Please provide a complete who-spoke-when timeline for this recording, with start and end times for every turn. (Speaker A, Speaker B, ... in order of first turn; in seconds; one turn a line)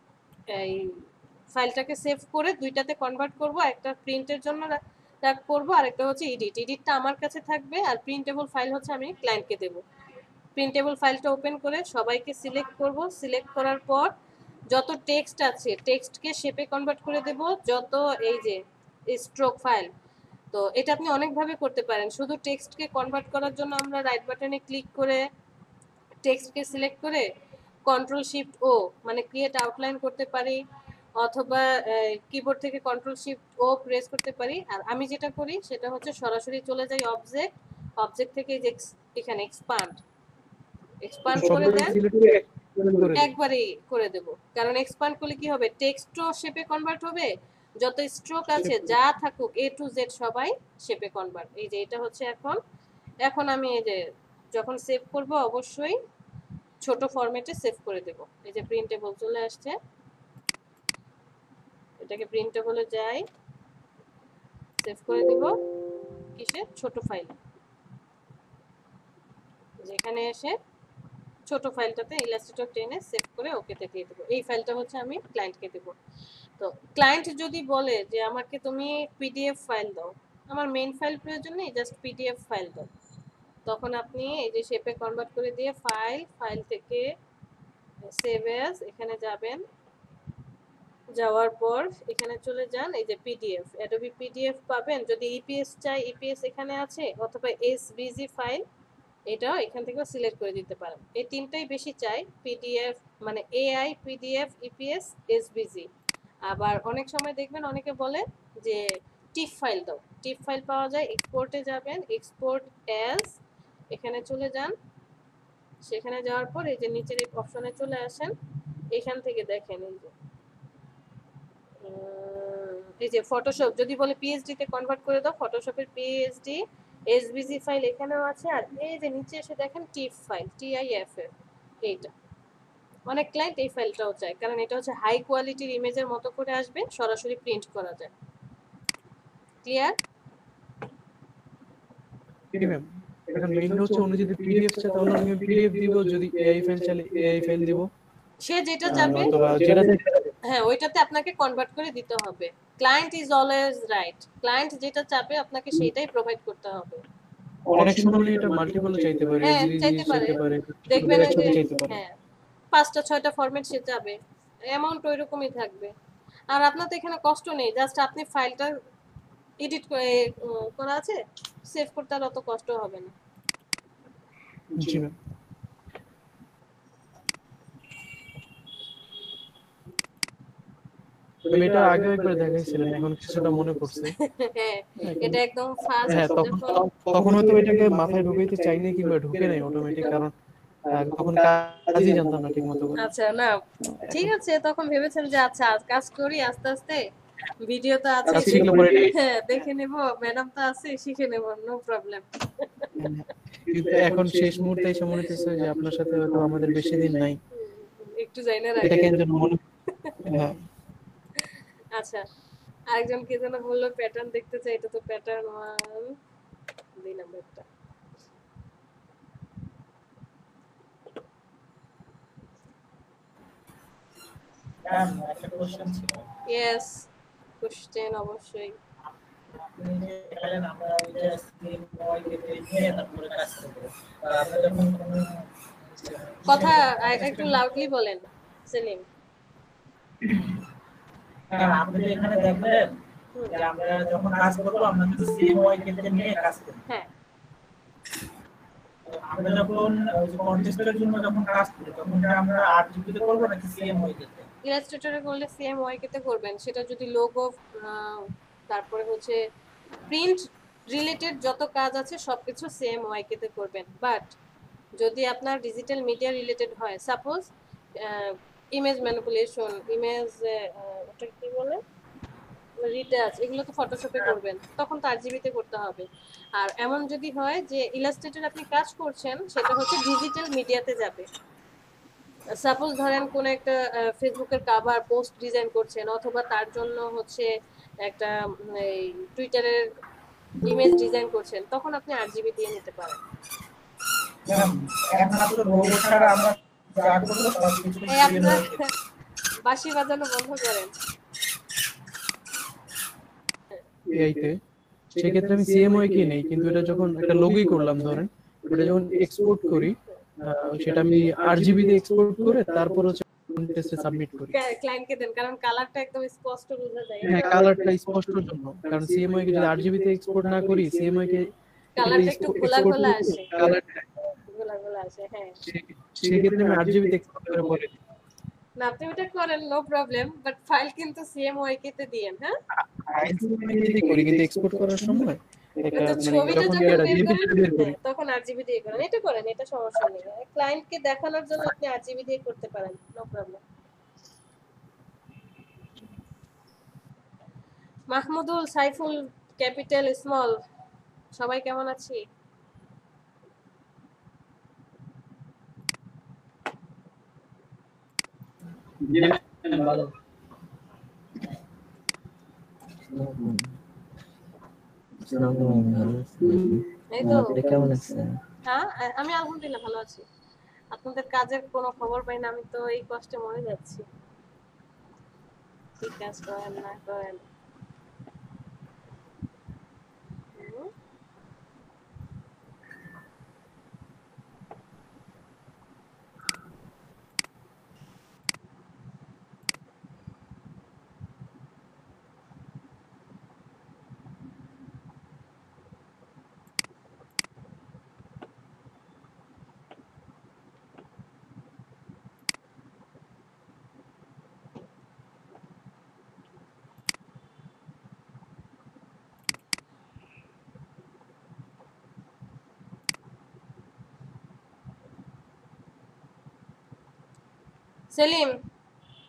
Speaker A: 0.5-9.8
Speaker A: 10.6-14.1
Speaker A: 14.7-19.9
Speaker A: 20.5-25.2
Speaker A: 26.2-27.3
Speaker A: 27.9-30.6
Speaker A: 31.2-40.0
Speaker A: 41.0-42.0
Speaker B: 41.3-43.3
Speaker A: 43.2-52.6
Speaker A: 53.2-56.0
Speaker A: 56.8-59.8
Speaker A: 62.0-63.3
Speaker A: 64.8-65.5
Speaker A: 66.3-67.4
Speaker A: 69.8-70.6
Speaker A: 71.5-76.0
Speaker A: 76.6-82.9
Speaker A: 83.7-87.1
Speaker A: 88.1-89.6
Speaker A: 91.2-98.6
Speaker A: 99.3-105.9
Speaker A: 106.5-113.4
Speaker A: 113.9-114.8
Speaker A: 115.8-118.3
Speaker A: 118.9-120.1
Speaker A: 121.8-131.3
Speaker A: 131.8-132.1
Speaker A: 133.1-138.1
Speaker A: 139.7-140.0
Speaker B: 142.5-147.9
Speaker A: 148.4-149.3
Speaker B: 148.8-150.2
Speaker A: 150.4-157.0
Speaker B: 157.7-162.0
Speaker A: 159.4-162.1
Speaker A: 162.7-165.9
Speaker A: 166.5-168.7
Speaker A: 169.6-173.1
Speaker B: 174.8-175.2
Speaker B: 181.5-184.1
Speaker A: 184.2-186.9
Speaker B: 185.0-185.3
Speaker B: 186.0-190.3
Speaker B: 190.9-193.0
Speaker A: 193.0-197.1
Speaker A: 197.6-202.9
Speaker B: 198.3-199.1
Speaker B: 203.0-207.4
Speaker A: 207.5-209.1
Speaker B: 208.8-209.6
Speaker B: 210.2-210.7
Speaker A: 211.4-212.2
Speaker A: 212.9-216.2
Speaker A: 217.0-217.7
Speaker C: 224.8-226.3
Speaker A: 226.5-227.1
Speaker A: 227.6-228.8
Speaker C: 229.6-235.4
Speaker C: 236.0-237.7
Speaker A: 236.5-239.1
Speaker C: 241.5-242.9
Speaker C: 243.5-246.8
Speaker C: 249.1-254.5
Speaker A: 254.6-259.4
Speaker A: 260.1-264.3
Speaker A: 265.0-271.8
Speaker A: 272.8-281.3
Speaker A: 282.5-287.5
Speaker A: 288.0-289.9
Speaker A: 290.6-293.2
Speaker C: 294.5-298.8
Speaker A: 298.1-298.9
Speaker A: 299.6-300.9
Speaker B: 304.1-304.6
Speaker B: 305.1-314.6
Speaker A: 314.5-317.4
Speaker B: 317.2-324.0
Speaker A: 322.0-323.5
Speaker A: 324.5-325.6
Speaker B: 325.7-327.9
Speaker A: 328.8-332.6
Speaker B: 333.1-337.9
Speaker A: 335.9-343.6
Speaker A: 348.1-350.6
Speaker A: 351.4-352.2
Speaker B: 359.0-360.1
Speaker D: 363.1-363.7
Speaker D: 365.2-368.4
Speaker A: 367.1-367.6
Speaker A: 368.7-370.3
Speaker A: 370.9-374.1
Speaker A: 376.0-377.4
Speaker A: 380.6-380.9
Speaker A: 418.1-418.6